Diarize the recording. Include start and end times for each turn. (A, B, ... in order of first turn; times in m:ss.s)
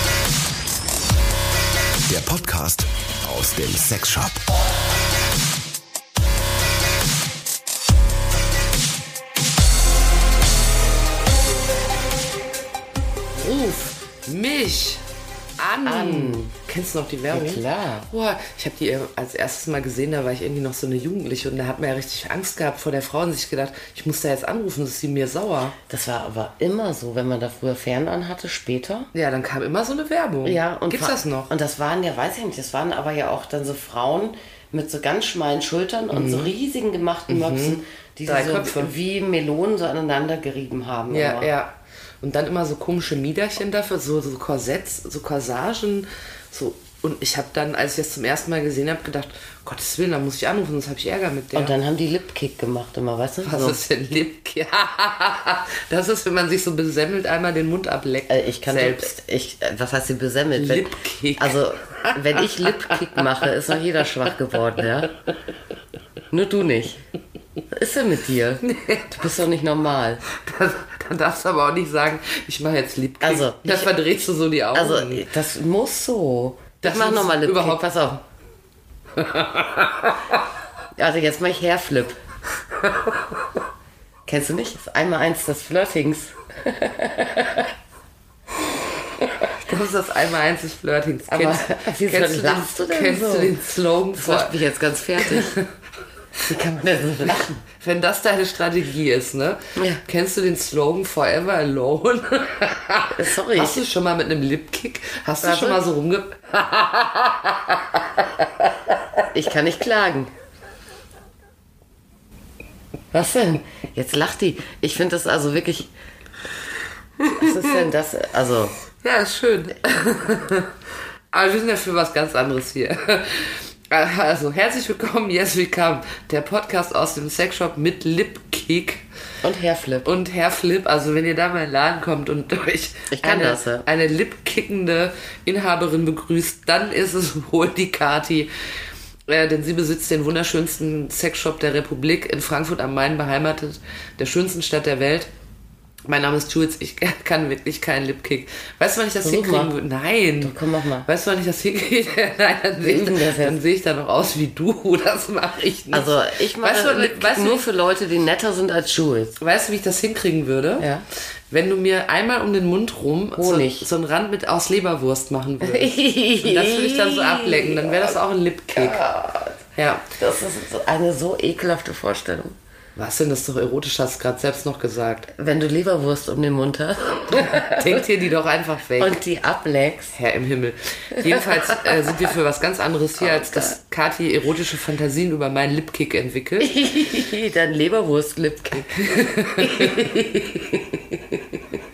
0:02.1-0:04.4 A
0:13.3-0:15.0 B
0:15.6-0:25.8 B
0:15.8-0:16.5 C
0:17.3-0:18.1 C
0:25.9-0:29.1 C
0:29.1-0:31.5 B
0:30.4-0:41.5 C
0:36.1-0:36.5 B
0:37.3-0:38.9 B
0:41.1-0:51.7 B
0:51.5-0:53.8 C
0:53.4-0:59.1 B
0:58.3-1:05.1 C
1:00.6-1:03.5 B
1:06.3-1:07.0 C
1:07.7-1:10.2 C
1:08.6-1:09.3 B
1:10.2-1:15.2 B
1:13.2-1:13.9 C
1:14.7-1:18.2 C
1:16.8-1:17.8 B
1:19.2-1:20.3 B
1:21.0-1:22.2 C
1:24.2-1:27.7 C
1:29.6-1:34.5 B
1:31.3-1:33.6 C
1:34.1-1:35.6 C
1:35.2-1:35.7 B
1:36.5-1:37.6 C
1:37.8-1:49.2 B
1:39.8-1:40.0 C
1:43.1-1:43.8 C
1:45.4-1:45.8 C
1:49.3-1:50.3 C
1:53.1-1:55.9 C
1:57.2-1:58.7 C
1:57.4-1:57.7 B
1:59.0-2:00.7 B
2:01.3-2:09.0 B
2:09.4-2:10.1 C
2:10.0-2:18.5 B
2:13.1-2:13.8 C
2:19.3-2:25.3 B
2:26.1-2:37.7 B
2:29.2-2:29.7 C
2:30.4-2:31.1 C
2:32.8-2:33.6 C
2:35.9-2:39.4 C
2:39.4-2:40.9 B
2:40.8-2:41.0 C
2:41.5-2:49.0 B
2:43.4-2:43.8 C
2:45.6-2:48.2 C
2:48.7-2:49.6 C
2:49.8-2:50.1 B
2:50.1-2:52.6 C
2:53.0-2:55.3 B
2:55.3-2:58.1 C
2:57.3-2:59.1 B
2:59.0-3:00.1 C
3:00.1-3:06.7 B
3:01.2-3:02.3 C
3:03.2-3:03.7 C
3:06.6-3:10.2 C
3:09.0-3:11.0 B
3:10.9-3:11.4 C